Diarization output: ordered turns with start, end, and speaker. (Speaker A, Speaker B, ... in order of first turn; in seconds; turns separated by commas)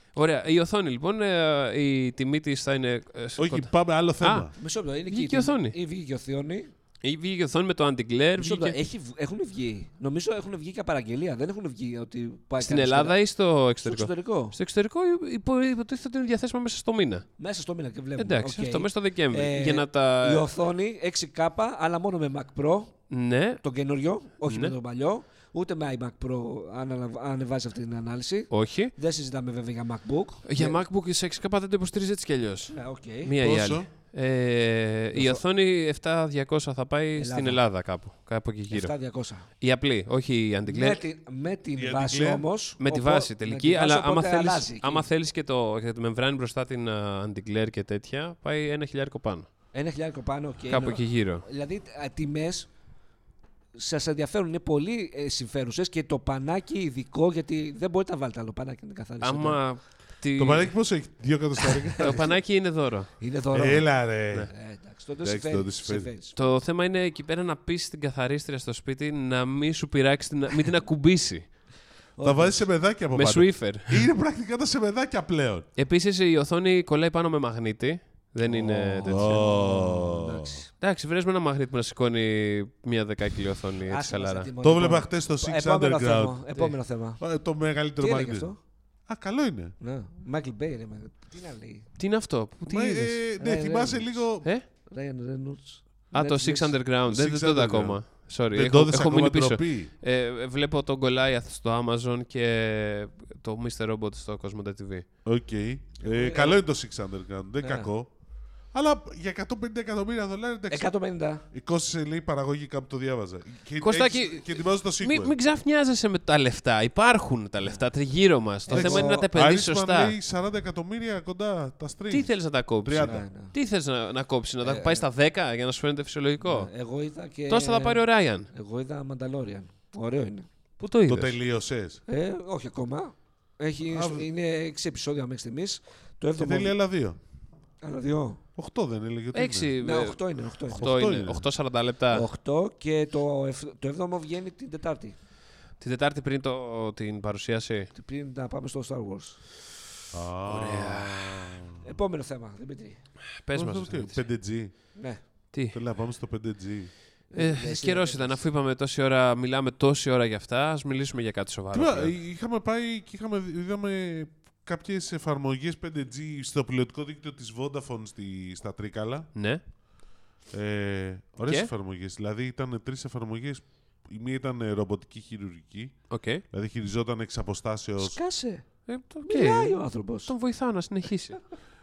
Speaker A: 0.1-4.6, Speaker B: 3.4-4.5, Speaker C: 4.6-6.7, Speaker A: 5.1-5.8, Speaker A: 7.0-8.8, Speaker C: 8.4-13.2, Speaker A: 12.6-17.3, Speaker C: 13.8-14.6, Speaker C: 17.4-23.0, Speaker A: 18.2-20.5, Speaker A: 23.1-23.6, Speaker C: 23.6-30.8, Speaker A: 24.5-24.7, Speaker A: 28.5-28.9, Speaker A: 30.5-41.0, Speaker C: 32.7-33.3, Speaker B: 33.4-33.9, Speaker C: 35.1-35.4, Speaker C: 37.1-37.6, Speaker C: 38.7-39.5, Speaker C: 40.7-45.1, Speaker B: 41.8-42.5, Speaker A: 42.8-49.5, Speaker C: 49.7-52.7, Speaker A: 50.7-51.4, Speaker C: 53.8-59.6, Speaker A: 59.2-60.7, Speaker B: 60.4-62.3, Speaker C: 61.7-62.4, Speaker A: 62.0-63.1, Speaker C: 63.2-66.4, Speaker B: 63.5-64.5, Speaker B: 65.2-66.1, Speaker A: 66.3-71.7, Speaker C: 72.2-72.7, Speaker B: 72.2-75.7, Speaker A: 73.1-74.1, Speaker A: 75.8-79.4, Speaker C: 78.4-80.7, Speaker B: 79.0-80.6, Speaker A: 80.8-84.5, Speaker C: 83.9-87.2, Speaker B: 84.6-86.4, Speaker B: 87.2-88.5, Speaker C: 88.0-88.6, Speaker B: 89.1-89.8, Speaker C: 89.8-91.9, Speaker A: 92.0-93.2, Speaker B: 92.7-94.5, Speaker C: 93.4-96.8, Speaker A: 96.1-105.1, Speaker B: 97.1-99.9, Speaker B: 105.2-108.1, Speaker C: 106.0-106.6, Speaker C: 107.6-107.9, Speaker B: 108.7-110.9, Speaker C: 110.7-111.5, Speaker B: 111.5-115.4, Speaker A: 113.8-120.1, Speaker C: 118.7-119.3, Speaker B: 118.7-123.2, Speaker A: 122.1-126.7, Speaker C: 123.0-123.5, Speaker C: 124.6-125.1, Speaker C: 126.4-130.5, Speaker A: 127.5-128.5, Speaker A: 130.8-131.4, Speaker B: 131.1-132.0, Speaker C: 132.1-136.8, Speaker B: 133.9-134.3, Speaker B: 136.4-137.2, Speaker C: 137.8-138.4, Speaker B: 138.6-139.7, Speaker A: 139.3-142.3, Speaker C: 139.8-140.9, Speaker B: 140.7-141.5, Speaker C: 142.1-145.2, Speaker A: 145.8-147.9, Speaker C: 147.9-149.4, Speaker B: 150.1-151.8, Speaker A: 150.4-151.6, Speaker C: 151.8-153.0, Speaker A: 153.4-154.2, Speaker B: 153.6-154.7, Speaker C: 154.9-155.2, Speaker A: 155.5-155.8, Speaker B: 155.7-156.9, Speaker C: 157.3-158.4, Speaker A: 157.3-162.1, Speaker B: 161.7-169.3, Speaker A: 169.3-169.6, Speaker B: 170.5-178.2, Speaker A: 176.1-176.4, Speaker C: 178.0-178.7, Speaker A: 178.9-181.4, Speaker C: 179.2-180.3